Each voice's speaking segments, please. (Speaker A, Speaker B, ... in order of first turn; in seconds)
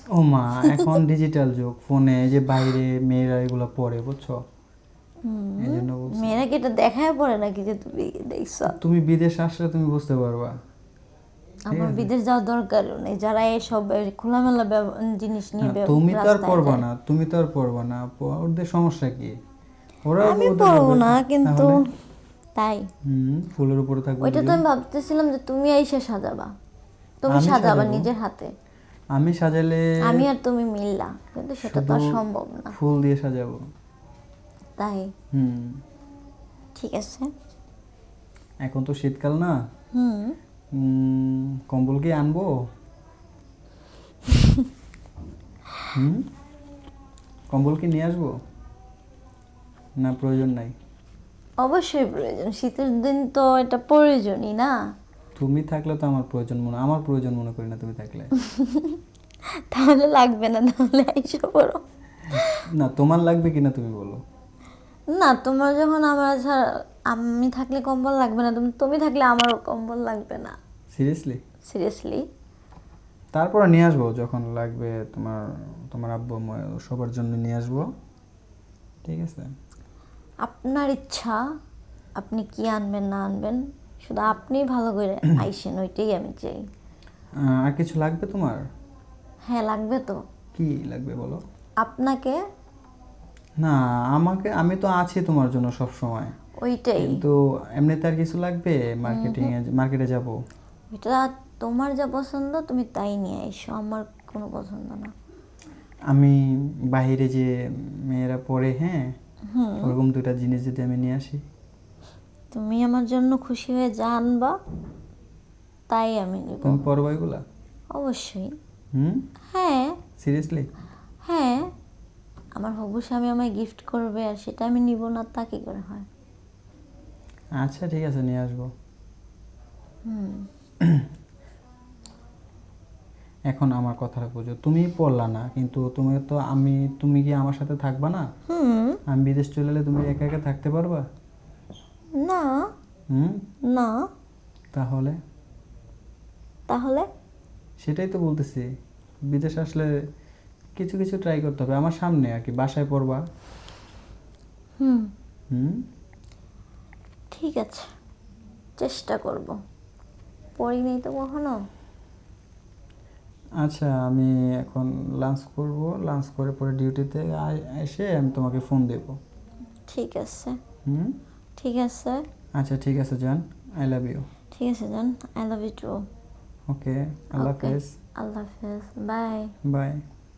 Speaker A: 0.2-4.4, 5.6-6.4, 8.7-10.5, 11.7-12.1, 15.6-19.3, 20.1-21.8, 23.1-24.6, 27.3-28.1, 29.1-30.3, 31.6-32.2, 32.7-33.6, 35.3-35.8, 38.6-39.5, 40.8-42.5, 45.9-46.3, 47.5-48.4, 50.0-50.7, 55.4-58.3, 62.8-64.2, 70.9-71.4, 73.3-77.9, 79.0-79.5, 87.4-88.6, 90.6-91.4, 93.6-96.3, 97.0-100.3, 106.1-106.4, 106.9-107.5, 108.1-109.1, 109.8-111.4, 116.6-117.4, 119.0-119.2, 120.2-120.7, 127.6-128.7, 133.5-138.3, 139.1-141.0, 143.1-143.4, 144.7-145.2, 147.8-148.7, 149.3-149.9, 150.8-153.2, 155.5-155.8, 163.6-169.2, 170.9-171.2, 172.6-174.2, 176.7-177.9, 179.7-180.0
Speaker B: 5.2-8.7, 11.7-16.8, 20.2-21.8, 22.6-22.9, 24.2-26.5, 27.2-28.5, 30.1-32.7, 34.8-35.1, 36.8-37.3, 39.9-40.4, 51.6-54.7, 58.4-59.0, 59.7-62.6, 65.1-70.6, 71.7-72.2, 80.5-81.4, 82.2-86.6, 89.5-90.2, 91.8-92.4, 96.6-97.2, 99.1-99.5, 100.9-105.1, 109.5-109.9, 112.5-114.5, 115.9-116.9, 118.0-118.5, 119.5-120.0, 121.3-121.7, 122.6-126.1, 130.1-130.5, 138.5-139.0, 142.2-142.5, 146.7-147.1, 154.8-155.1, 157.3-157.9, 158.8-159.6, 160.6-161.6, 169.9-170.6, 171.6-172.2, 174.6-176.1, 177.4-179.5